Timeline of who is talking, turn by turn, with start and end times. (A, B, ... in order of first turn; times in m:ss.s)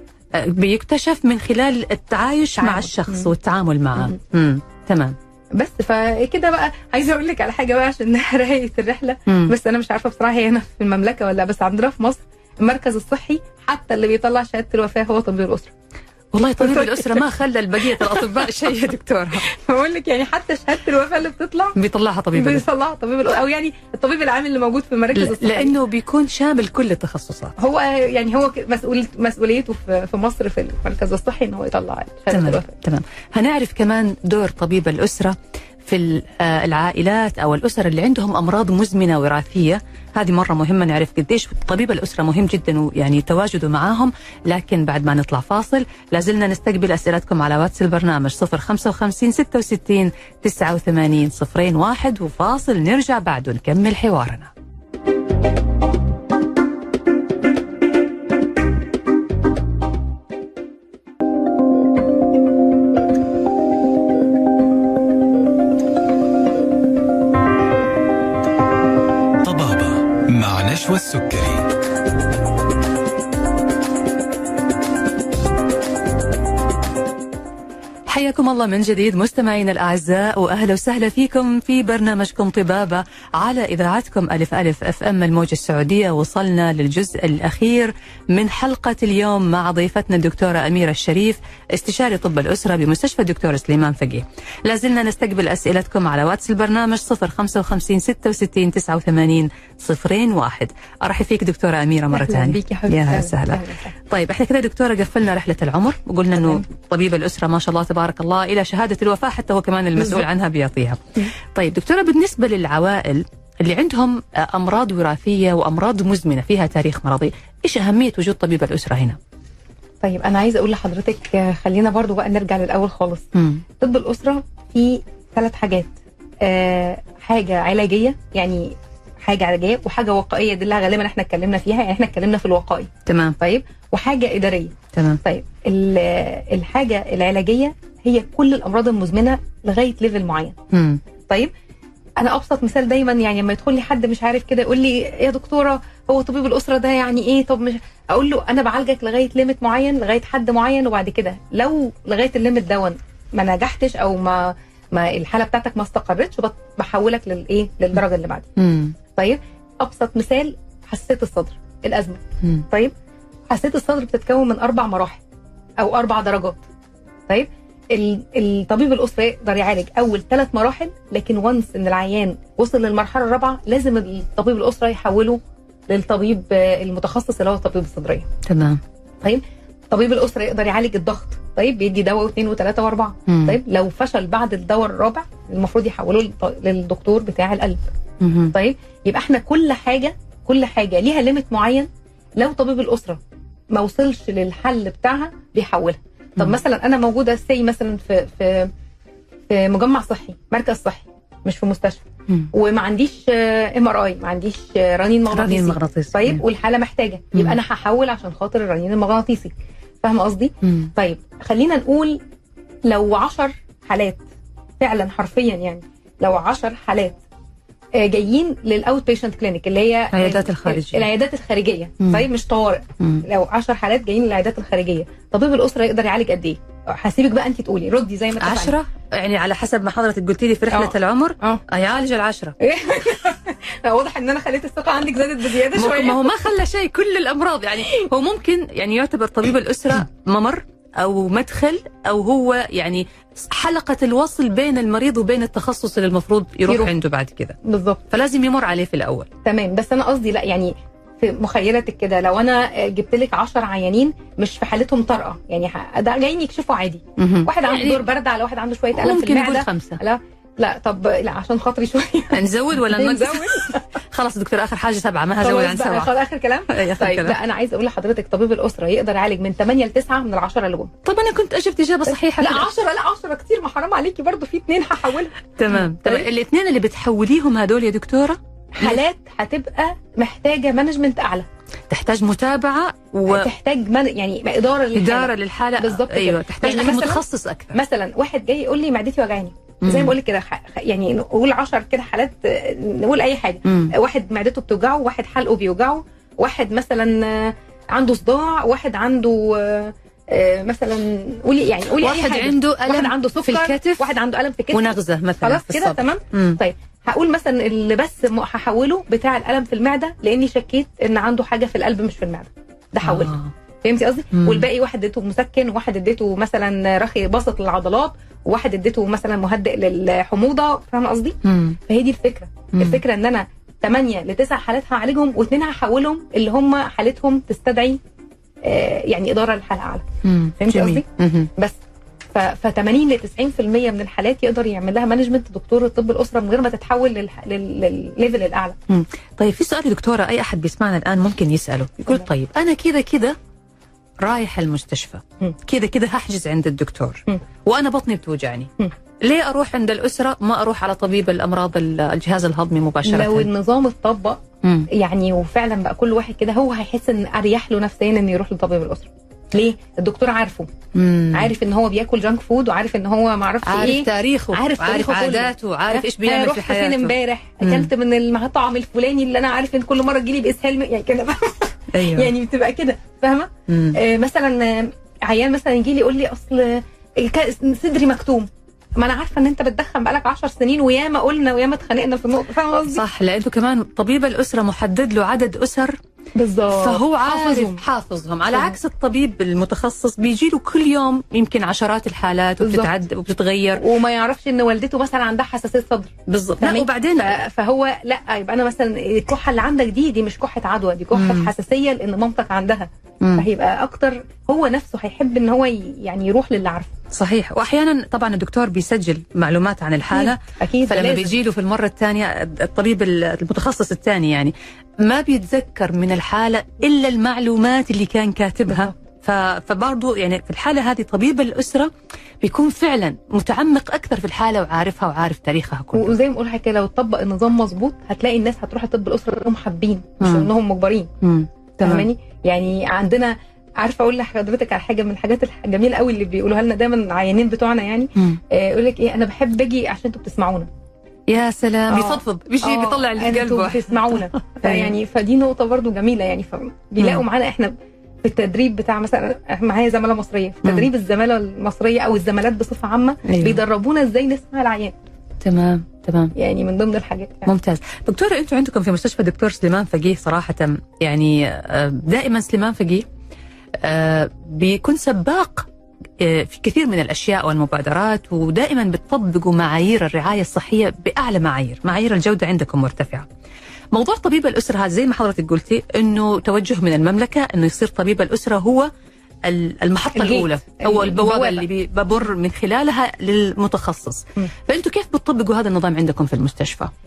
0:00.3-0:05.2 A
0:02.6-0:03.3 B
0:05.5-0:15.7 B
0:09.3-0:09.5 A
0:16.3-0:19.4 A
0:16.6-0:17.3 B
0:17.8-0:18.4 B
0:19.4-0:21.8 B
0:21.8-0:22.6 A
0:22.3-0:25.7 B
0:25.1-0:27.6 A
0:27.6-0:32.7 B
0:32.3-0:54.5 A
1:09.4-1:11.7 C
1:18.1-1:59.2 A
1:42.1-1:43.9 B
1:46.4-1:46.6 B
2:00.0-2:03.2 B
2:03.3-2:03.6 A
2:03.8-2:20.6 B
2:13.0-2:13.4 A
2:14.9-2:15.2 A
2:20.7-2:21.0 A
2:22.2-2:38.5 B
2:38.6-2:38.9 A
2:39.2-2:42.9 B
2:43.5-2:45.2 B
2:45.8-2:46.6 B
2:47.3-2:58.3 B
2:58.4-2:58.8 A
2:59.2-3:07.8 B
3:03.3-3:03.6 A
3:08.2-3:08.5 A
3:08.5-3:18.7 B
3:19.5-3:32.2 B
3:25.3-3:26.4 A
3:30.6-3:30.9 A
3:32.8-3:34.2 B
3:34.8-3:37.2 B
3:37.9-3:48.8 B
3:40.1-3:41.1 A
3:48.4-3:52.6 A
3:50.7-3:51.6 B
3:52.6-3:56.5 B
3:55.7-4:07.6 A
4:06.7-4:06.9 B
4:07.6-4:08.0 B
4:08.1-4:09.3 A
4:09.4-4:23.8 B
4:17.2-4:18.0 A
4:18.9-4:20.0 A
4:22.3-4:26.1 A
4:25.4-4:30.9 B
4:26.7-4:27.4 A
4:31.0-4:32.7 A
4:32.1-4:36.3 B
4:35.6-4:39.0 A
4:38.7-4:41.5 B
4:41.9-4:43.5 A
4:43.2-4:47.2 B
4:44.9-4:47.8 A
4:47.7-5:28.0 B
4:49.8-4:50.1 A
4:53.6-4:53.9 A
5:02.0-5:04.2 A
5:04.7-5:06.6 A
5:13.0-5:13.5 A
5:14.4-5:14.6 A
5:21.4-5:21.8 A
5:22.7-5:23.0 A
5:28.6-5:31.8 B
5:30.2-5:31.5 A
5:32.3-5:38.8 B
5:38.9-5:43.4 A
5:44.2-5:53.5 A
5:53.0-6:00.7 B
5:54.6-5:54.9 A
6:00.9-6:01.5 A
6:01.3-6:23.0 B
6:03.6-6:07.9 A
6:11.9-6:12.3 A
6:13.7-6:14.0 A
6:22.9-6:26.0 A
6:26.3-6:27.8 B
6:26.7-6:33.8 A
6:32.6-6:32.9 B
6:33.8-6:46.9 B
6:36.3-6:37.3 A
6:41.1-6:41.5 A
6:43.2-6:43.4 A
6:47.1-7:06.2 A
6:50.1-6:51.4 B
6:58.7-6:59.0 B
7:05.9-7:11.1 B
7:10.2-7:10.5 A
7:11.2-7:12.1 A
7:11.8-7:20.7 B
7:21.3-7:24.9 A
7:21.9-7:34.9 B
7:27.0-7:27.2 A
7:33.2-7:33.6 A
7:35.4-7:36.3 A
7:36.3-7:37.5 B
7:37.4-7:43.0 A
7:43.8-7:53.2 A
7:53.9-7:58.9 A
7:59.4-8:06.9 A
8:00.1-8:01.6 B